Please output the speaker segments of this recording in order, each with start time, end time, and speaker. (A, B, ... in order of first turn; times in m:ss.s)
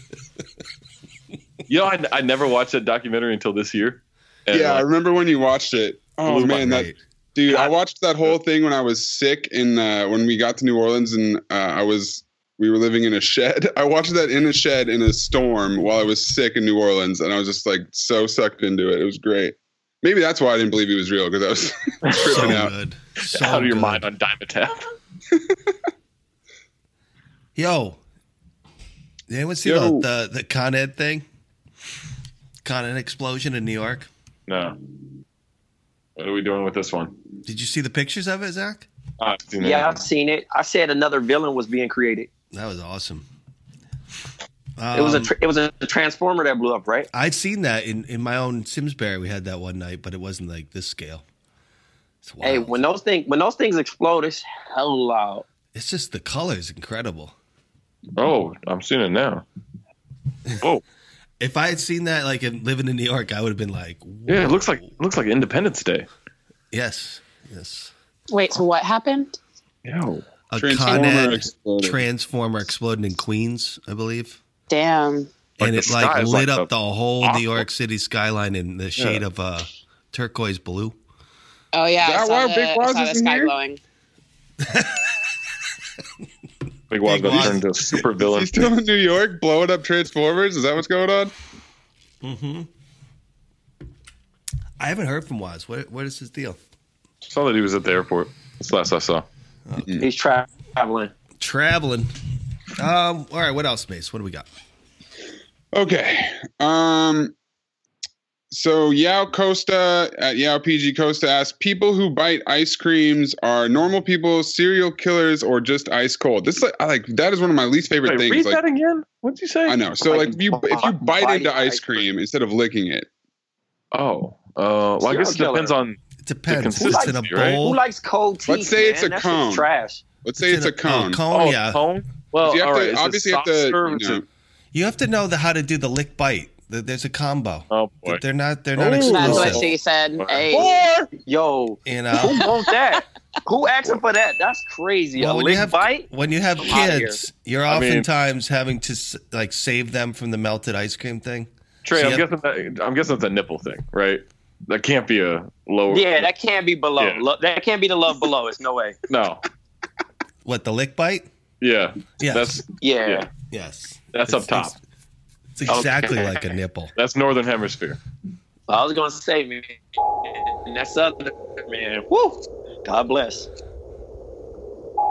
0:01.7-0:04.8 A
0:04.5-0:22.7 B
0:06.3-0:06.6 A
0:06.3-0:07.0 C
0:22.0-0:22.6 A
0:22.2-0:24.0 C
0:23.2-0:24.9 A
0:27.5-0:28.0 C
0:29.3-0:31.2 C
0:29.6-0:30.0 B
0:32.6-0:34.1 C
0:34.5-0:34.8 A
0:36.2-0:37.1 A
0:37.4-0:38.9 C
0:39.2-0:40.0 A
0:39.6-0:42.3 D
0:42.5-0:43.2 C
0:44.8-0:45.3 C
0:44.9-0:47.1 D
0:47.1-0:51.2 C
0:52.2-0:52.8 C
0:52.4-0:55.4 D
0:55.7-0:57.3 C
0:58.2-0:59.4 A
1:01.4-1:04.9 C
1:04.3-1:06.1 A
1:06.7-1:07.9 C
1:08.3-1:09.4 E
1:09.8-1:10.2 A
1:10.5-1:14.4 C
1:10.6-1:12.0 B
1:14.7-1:15.3 E
1:15.6-1:17.6 A
1:15.6-1:21.0 C
1:19.0-1:19.2 A
1:21.7-1:23.8 E
1:22.0-1:23.5 B
1:24.6-1:25.0 C
1:26.9-1:28.7 A
1:27.0-1:27.6 C
1:28.2-1:31.3 B
1:32.2-1:32.7 C
1:34.8-1:36.6 C
1:37.3-1:39.2 A
1:39.7-1:40.0 C
1:39.8-1:40.1 B
1:40.0-1:41.1 D
1:41.4-1:42.1 C
1:42.8-1:44.5 C
1:45.7-1:47.3 B
1:48.5-1:58.6 B
1:58.0-1:59.8 A
1:59.7-2:03.1 B
2:00.0-2:02.1 D
2:03.9-2:07.6 A
2:05.0-2:05.8 D
2:06.2-2:07.8 C
2:06.8-2:10.0 D
2:08.4-2:09.7 B
2:10.2-2:11.2 B
2:10.4-2:11.8 C
2:11.3-2:14.2 A
2:12.4-2:14.2 B
2:14.7-2:19.7 C
2:17.7-2:18.2 A
2:18.8-2:19.6 A
2:19.0-2:20.7 E
2:19.1-2:19.7 D
2:20.2-2:20.5 A
2:20.5-2:26.1 D
2:21.8-2:22.4 C
2:25.2-2:32.2 C
2:26.6-2:27.2 D
2:27.7-2:28.1 A
2:31.8-2:36.3 A
2:35.9-2:39.0 D
2:37.0-2:37.2 A
2:39.1-2:39.4 A
2:40.4-2:41.3 C
2:41.6-2:43.2 A
2:42.2-2:42.6 C
2:42.8-2:43.3 D
2:43.5-2:44.8 C
2:44.1-2:44.7 A
2:45.6-2:46.9 C
2:45.7-2:46.5 D
2:47.0-2:48.0 A
2:48.7-2:53.5 D